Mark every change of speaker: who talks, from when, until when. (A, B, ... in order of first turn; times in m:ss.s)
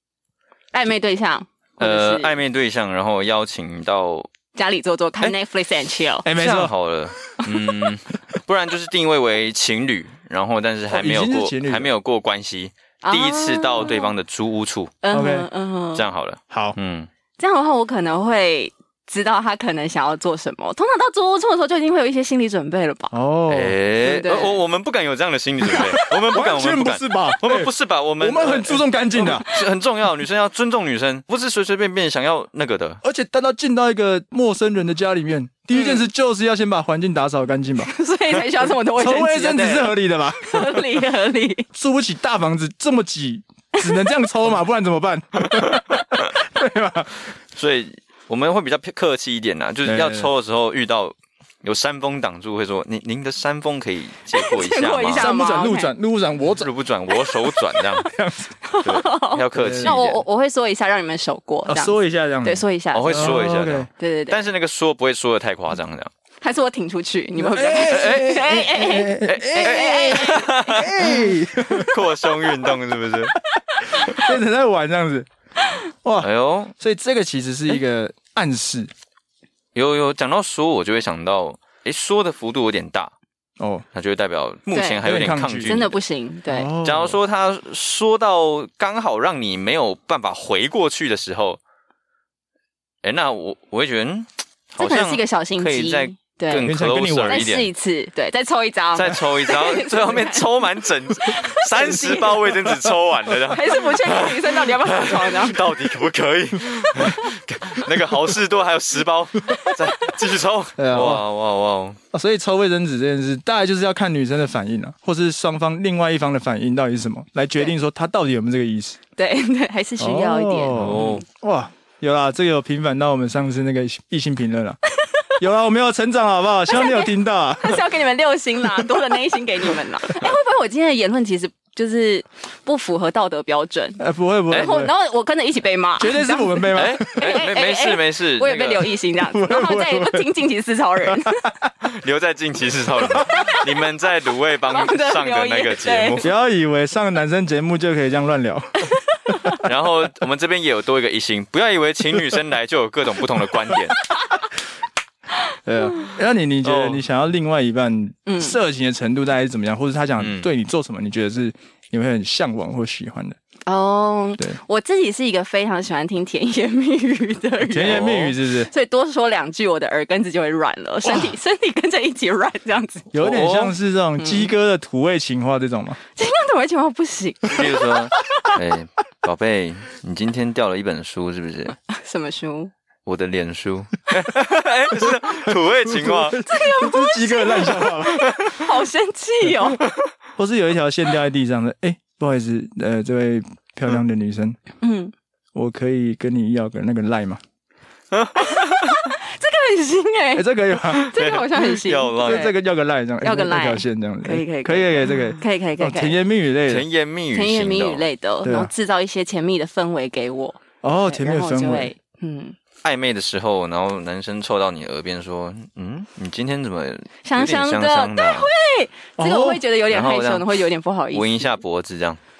0:00.7-0:02.4 A
0:01.8-0:04.3 B
0:04.6-0:06.3 A
0:06.2-0:06.7 C
0:06.3-0:15.0 B
0:10.9-0:11.9 C
0:13.0-0:14.1 A
0:15.0-0:16.0 A
0:15.1-0:15.5 C
0:16.0-0:17.1 B
0:16.5-0:16.8 C
0:17.4-0:23.1 A
0:23.1-0:23.8 C
0:23.5-0:33.0 B
0:24.0-0:24.6 A
0:25.7-0:29.5 C
0:33.0-0:37.9 C
0:35.7-0:36.0 A
0:37.8-0:41.7 A
0:39.0-0:40.9 C
0:41.7-0:47.3 C
0:47.5-0:55.4 B
0:49.8-0:50.3 C
0:54.3-0:55.9 A
0:55.2-0:56.7 C
0:56.6-0:58.1 B
0:57.1-0:57.9 A
0:58.1-0:58.5 C
0:58.6-1:03.4 A
0:58.8-1:00.2 B
0:59.5-1:00.0 C
1:01.7-1:03.9 C
1:02.9-1:06.1 B
1:04.0-1:04.4 A
1:06.4-1:10.8 A
1:07.4-1:12.0 C
1:07.8-1:08.5 B
1:09.3-1:13.4 B
1:13.5-1:15.3 C
1:13.9-1:14.3 A
1:16.0-1:18.9 C
1:16.2-1:16.7 B
1:19.8-1:23.1 B
1:23.6-1:23.8 C
1:23.9-1:26.0 B
1:24.7-1:25.0 A
1:25.0-1:25.8 C
1:25.6-1:26.7 A
1:26.5-1:27.2 C
1:26.8-1:31.6 B
1:33.0-1:37.7 B
1:34.8-1:36.7 A
1:36.6-1:37.5 C
1:37.3-1:40.5 A
1:39.0-1:52.0 B
1:41.1-1:42.6 A
1:43.5-1:45.8 A
1:50.8-1:51.2 C
1:52.1-1:59.0 C
1:59.2-2:01.2 A
2:00.0-2:04.8 C
2:00.7-2:01.2 B
2:05.0-2:05.3 A
2:05.4-2:07.8 C
2:06.7-2:21.5 A
2:14.0-2:14.9 C
2:16.0-2:17.4 C
2:16.7-2:19.0 B
2:19.2-2:20.3 C
2:21.1-2:21.7 C
2:21.8-2:26.3 B
2:23.2-2:24.1 A
2:24.6-2:26.3 A
2:26.2-2:29.5 C
2:28.9-2:29.6 A
2:29.6-2:34.0 B
2:35.7-2:43.4 C
2:36.6-2:37.0 B
2:38.3-2:38.6 A
2:40.2-2:40.5 B
2:43.7-2:53.1 A
2:47.6-2:48.7 C
2:47.8-2:48.3 B
2:51.0-2:51.3 C
2:53.1-2:56.0 C
2:53.2-2:53.8 B
2:54.2-2:54.5 A
2:56.2-2:57.9 A
2:57.5-3:01.8 B
3:01.9-3:02.7 A
3:03.1-3:06.4 B
3:05.1-3:08.5 C
3:06.5-3:09.8 A
3:10.4-3:14.6 C
3:14.8-3:15.1 A
3:15.5-3:17.4 C
3:18.1-3:19.1 B
3:18.4-3:22.6 A
3:20.4-3:21.1 C
3:21.0-3:22.5 B
3:22.2-3:26.9 C
3:23.2-3:26.2 A
3:26.7-3:28.0 B
3:27.3-3:32.6 A
3:28.4-3:28.7 C
3:30.8-3:31.9 C
3:32.8-3:38.5 B
3:37.2-3:41.6 A
3:39.2-3:39.6 C
3:39.9-3:40.6 B
3:41.1-3:42.2 B